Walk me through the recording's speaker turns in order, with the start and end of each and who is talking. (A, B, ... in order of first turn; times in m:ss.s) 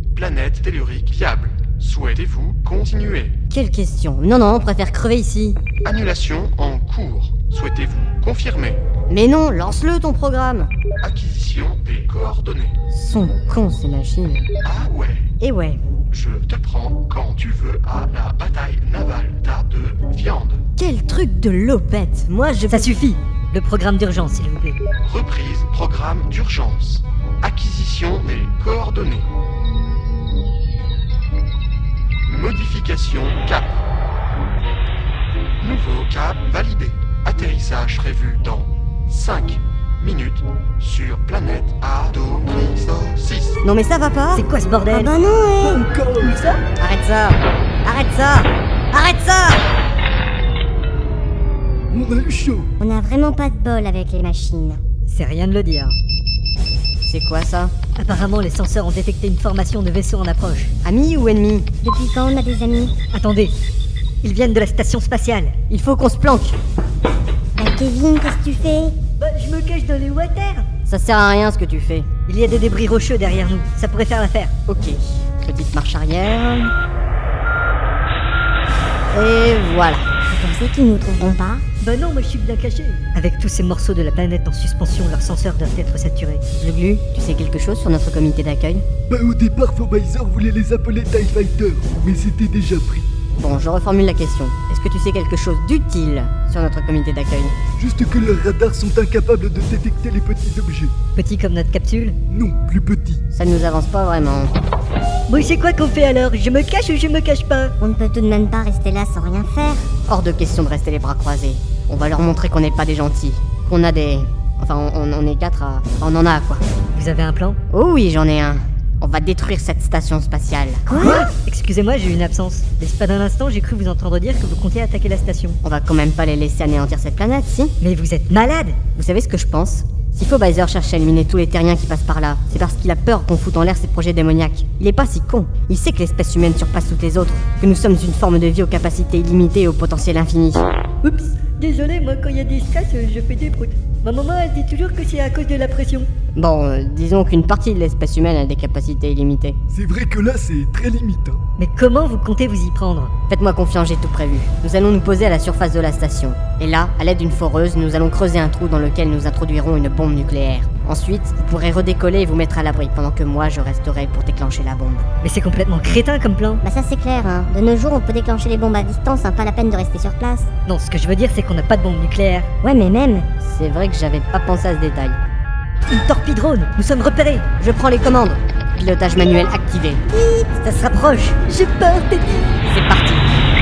0:00.1-0:03.3 A
0:03.5-0:05.6 B
0:05.8-0:08.8 A
0:09.1-0:10.7 B
0:11.0-0:12.7 A
0:12.9-0:14.5 B
0:14.6-0:15.2 A
0:15.4-0:15.8 B
0:16.1-0:20.6 A
0:20.8-0:23.0 B
0:22.7-0:24.8 C
0:25.0-0:29.3 A
0:32.3-0:33.8 A
0:35.6-0:43.6 A
0:43.6-0:44.4 B
0:44.3-0:45.1 C
0:44.9-0:45.8 D
0:45.6-0:46.6 E
0:46.8-0:49.6 B
0:51.9-0:52.7 E
0:52.8-0:54.8 D
0:55.1-0:56.0 C
0:57.0-0:57.7 B
0:58.0-1:00.7 C
1:00.8-1:01.7 B
1:01.8-1:02.9 D
1:03.1-1:03.5 C
1:04.2-1:05.5 C
1:05.7-1:06.6 B
1:07.6-1:09.0 D
1:09.2-1:10.6 C
1:10.8-1:12.1 B
1:12.3-1:14.5 C
1:14.7-1:16.7 B
1:19.1-1:20.1 B
1:20.3-1:21.6 D
1:21.8-1:26.4 C
1:26.6-1:28.8 B
1:29.1-1:33.1 E
1:33.4-1:37.6 B
1:37.8-1:40.9 E
1:41.2-1:42.2 C
1:42.3-1:43.2 E
1:43.3-1:44.5 B
1:45.3-1:47.7 C
1:47.8-1:49.9 D
1:50.0-1:56.6 B
1:56.9-1:57.6 C
1:57.7-2:00.8 B
2:00.9-2:01.3 D
2:01.2-2:05.6 C
2:05.6-2:07.7 B
2:07.8-2:08.8 C
2:09.0-2:20.7 B
2:21.0-2:26.1 C
2:26.3-2:29.6 B
2:29.7-2:31.4 E
2:31.6-2:33.1 C
2:33.3-2:45.0 B
2:45.2-2:46.6 C
2:46.6-2:50.5 D
2:50.7-2:52.5 C
2:52.6-2:53.3 D
2:53.4-2:55.2 B
2:55.9-2:57.5 C
2:57.6-3:00.0 B
3:00.1-3:00.5 D
3:00.6-3:02.5 C
3:02.6-3:03.3 B